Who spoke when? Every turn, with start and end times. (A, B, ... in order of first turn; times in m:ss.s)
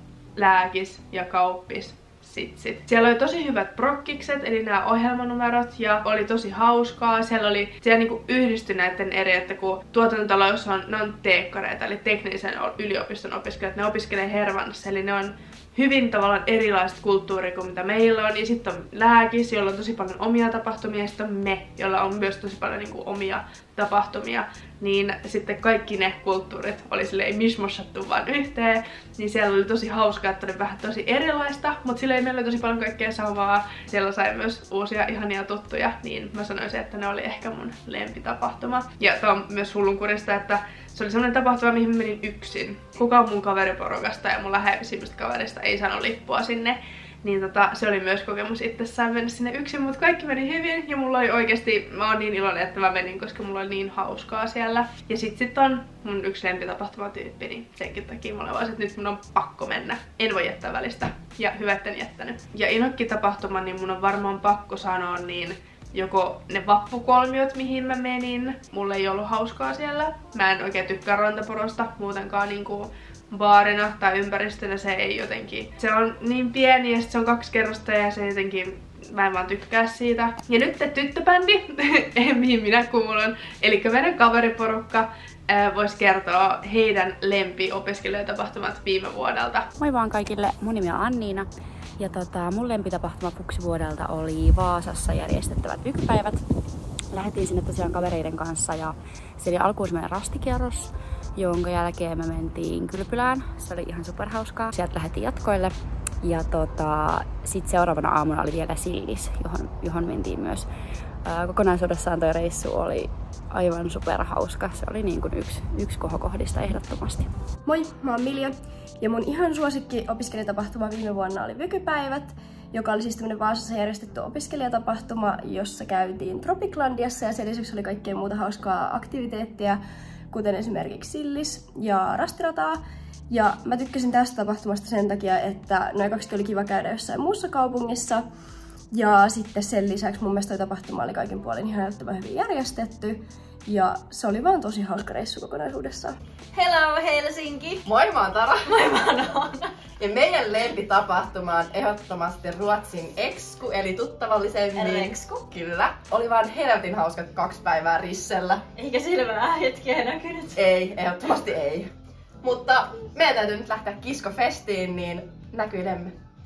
0:00.4-1:29.7 A
1:29.8-1:31.5 B
1:32.0-1:36.4 B
1:37.1-1:50.7 B
1:51.2-1:57.3 B
1:57.6-2:09.8 C
2:10.3-2:12.8 C
2:13.3-2:18.2 C
2:18.9-2:26.2 C
2:26.5-2:27.8 D
2:27.8-2:28.7 E
2:28.6-2:29.8 D
2:30.0-2:38.6 E
2:34.8-2:35.4 D
2:38.8-2:40.6 D
2:40.5-2:41.9 E
2:42.4-2:46.1 E